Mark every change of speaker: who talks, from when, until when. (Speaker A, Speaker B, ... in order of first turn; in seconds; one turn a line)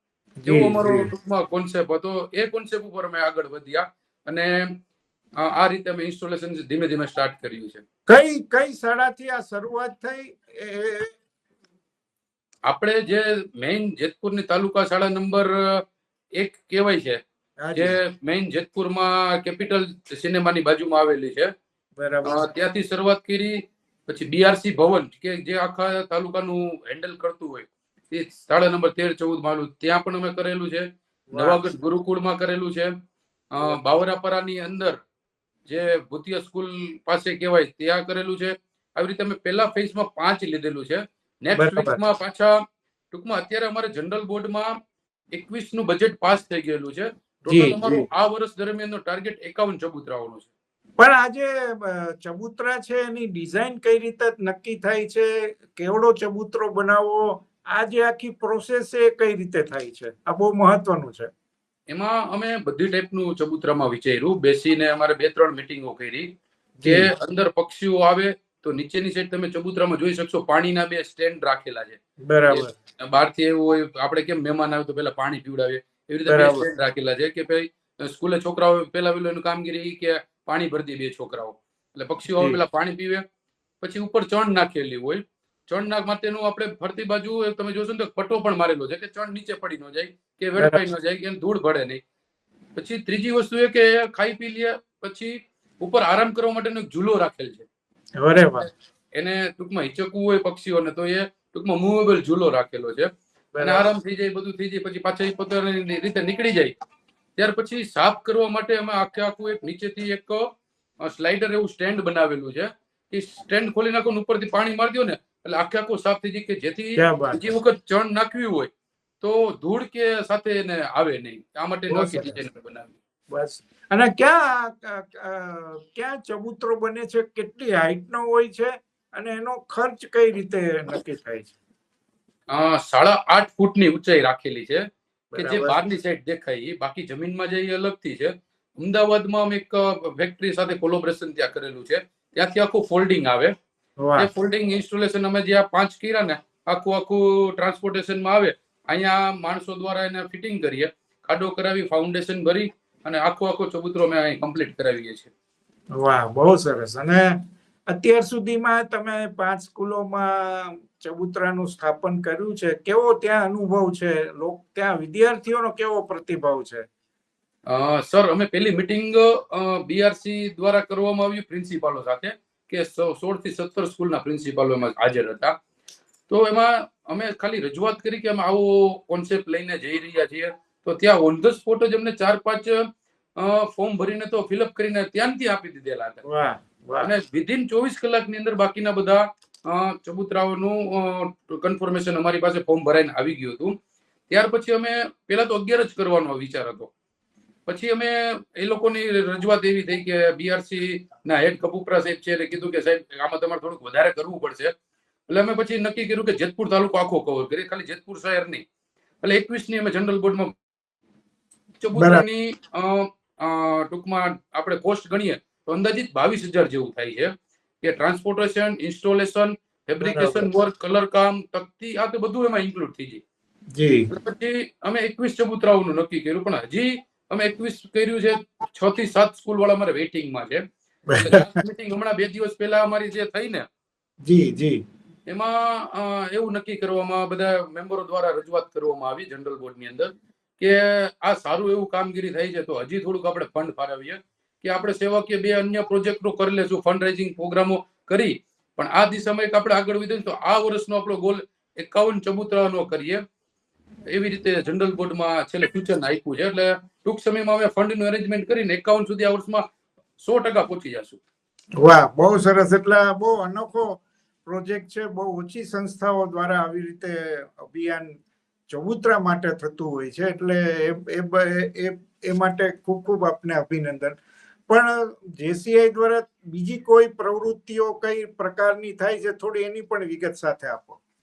Speaker A: 0.4-1.1
Speaker B: 0.5-4.7
Speaker B: 5.4-7.8
Speaker A: 8.1-11.1
Speaker B: 12.7-15.8
Speaker B: 16.4-17.2
Speaker A: 17.6-18.0
Speaker B: 17.7-21.5
Speaker A: 22.0-22.4
Speaker B: 22.2-32.9
Speaker A: 31.3-31.6
Speaker B: 33.5-35.0
Speaker B: 35.7-42.5
Speaker A: 41.5-42.0
Speaker B: 43.1-44.7
Speaker B: 45.3-50.5
Speaker A: 47.5-48.0
Speaker A: 51.0-61.3
Speaker B: 61.9-66.3
Speaker A: 66.8-67.1
Speaker B: 66.8-83.2
Speaker A: 72.2-72.7
Speaker A: 76.2-76.7
Speaker B: 83.8-92.0
Speaker A: 90.6-90.8
Speaker B: 92.8-97.7
Speaker A: 98.2-98.7
Speaker B: 99.2-106.7
Speaker A: 103.5-103.9
Speaker B: 107.4-110.4
Speaker B: 111.0-118.7
Speaker A: 117.0-117.5
Speaker B: 119.2-123.0
Speaker A: 121.9-122.4
Speaker A: 123.3-131.6
Speaker B: 132.5-134.8
Speaker B: 135.3-143.5
Speaker A: 135.3-135.9
Speaker A: 144.0-144.3
Speaker B: 144.2-155.3
Speaker A: 156.0-157.3
Speaker A: 157.9-166.8
Speaker B: 167.7-175.5
Speaker B: 176.3-182.8
Speaker B: 183.4-186.2
Speaker A: 186.2-187.1
Speaker B: 187.0-193.7
Speaker B: 194.3-196.9
Speaker B: 197.7-204.7
Speaker B: 205.3-208.6
Speaker B: 209.2-210.6
Speaker B: 211.8-223.2
Speaker A: 211.9-212.2
Speaker A: 220.0-220.5
Speaker A: 223.8-224.1
Speaker B: 224.1-230.6
Speaker A: 231.1-231.5
Speaker B: 231.2-233.7
Speaker A: 234.2-234.8
Speaker B: 235.3-253.2
Speaker B: 254.1-259.6
Speaker B: 260.2-261.2
Speaker A: 261.8-268.1
Speaker A: 268.7-274.2
Speaker A: 274.7-281.0